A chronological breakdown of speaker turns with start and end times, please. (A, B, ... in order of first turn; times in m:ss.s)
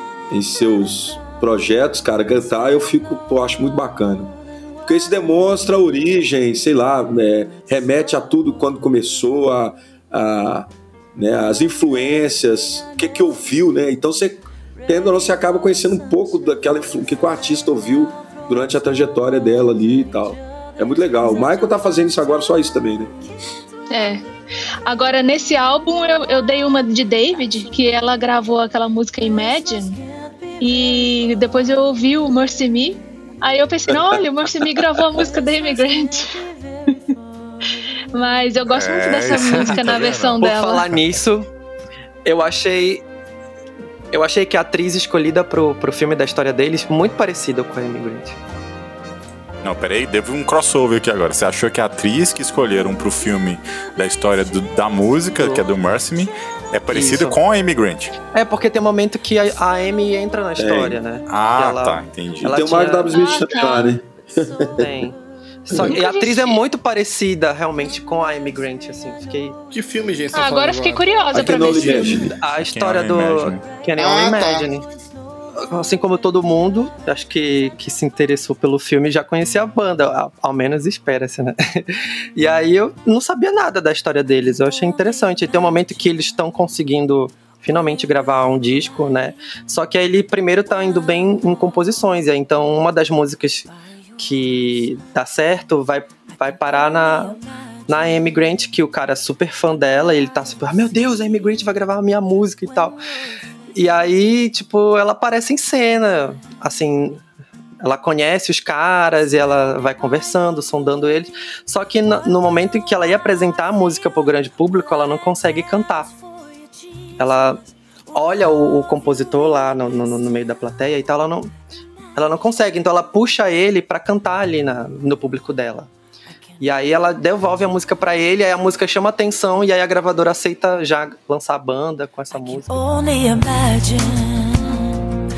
0:00.3-0:23.1 A
0:23.9-0:24.2 B
0:24.8-0:30.0 B
0:30.6-0:36.9 B
0:33.9-0:35.0 A
0:38.1-0:40.8 B
0:38.7-0:41.0 C
0:39.4-0:41.5 D
0:42.2-0:43.0 D
0:44.1-0:48.4 D
0:49.6-0:58.1 C
0:55.4-0:55.6 D
0:56.9-0:57.4 D
0:58.3-1:03.3 D
1:00.6-1:01.0 A
1:01.3-1:02.5 C
1:02.4-1:05.1 A
1:03.1-1:03.9 B
1:04.8-1:09.6 D
1:05.7-1:06.6 B
1:09.7-1:12.3 E
1:10.3-1:12.3 B
1:11.3-1:12.4 A
1:12.4-1:14.8 D
1:12.5-1:13.7 C
1:14.0-1:14.7 E
1:15.6-1:43.0 D
1:43.7-1:47.2 D
1:47.8-1:56.1 D
1:57.2-1:57.6 D
1:58.1-2:01.5 D
2:02.1-2:05.9 D
2:06.6-2:12.9 D
2:12.4-2:15.0 F